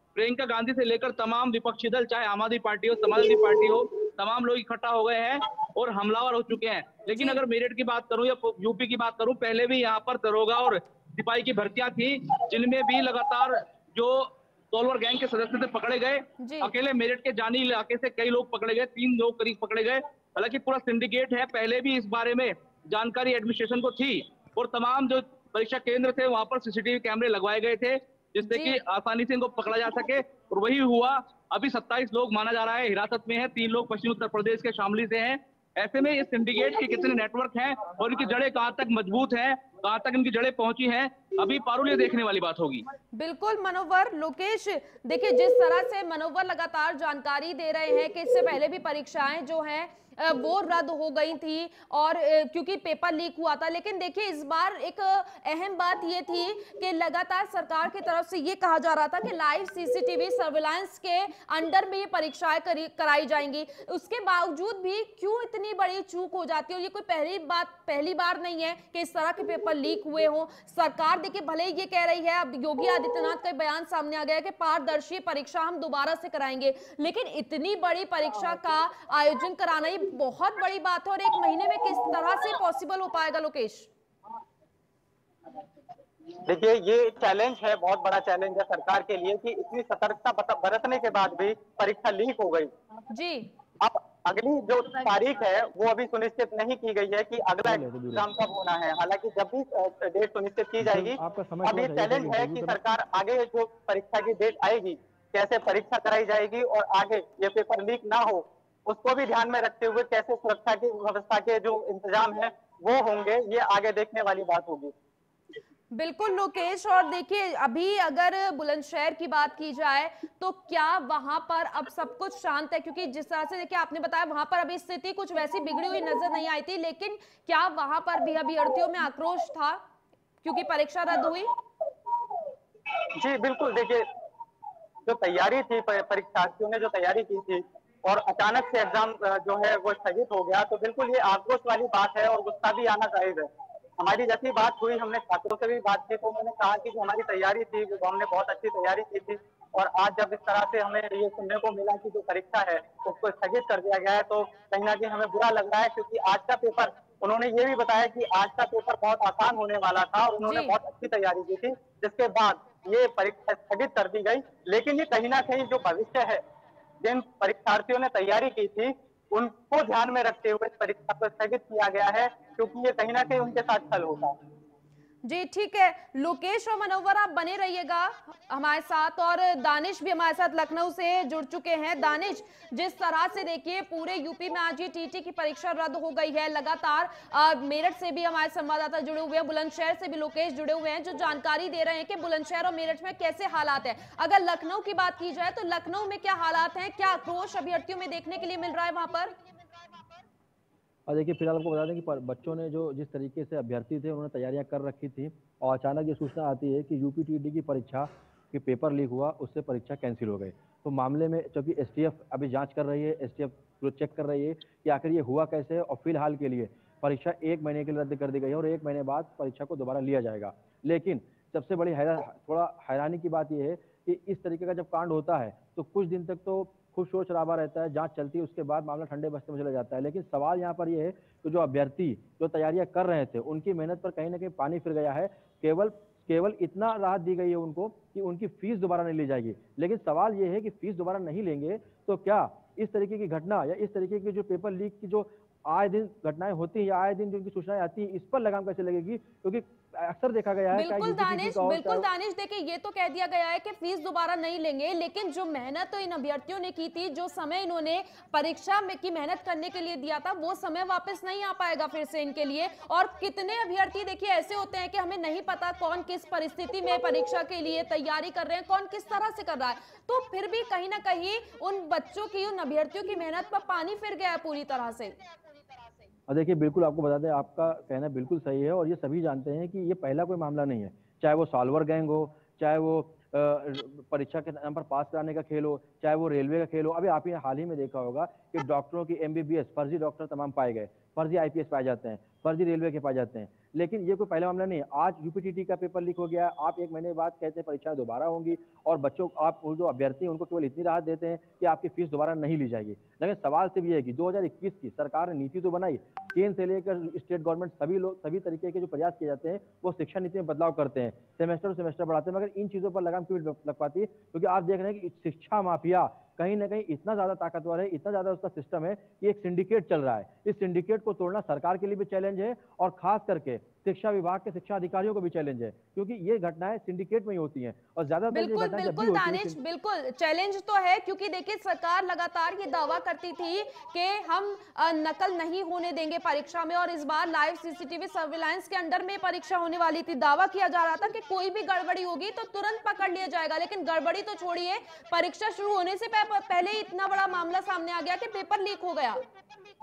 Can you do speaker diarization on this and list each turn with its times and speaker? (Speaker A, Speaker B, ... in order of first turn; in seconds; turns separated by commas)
Speaker A: 0.1-42.9, Speaker B: 16.4-16.7, Speaker B: 28.4-28.8, Speaker B: 43.1-83.9, Speaker C: 86.4-92.7, Speaker B: 93.1-93.5, Speaker C: 93.8-114.9, Speaker D: 97.6-98.2, Speaker D: 100.8-102.8, Speaker B: 115.9-129.8, Speaker B: 130.4-131.5, Speaker C: 133.2-134.0, Speaker C: 135.0-166.4, Speaker B: 160.4-160.8, Speaker C: 167.0-174.4, Speaker B: 175.2-199.3, Speaker D: 201.1-252.1, Speaker B: 250.7-275.1, Speaker D: 276.3-329.6, Speaker B: 328.3-349.2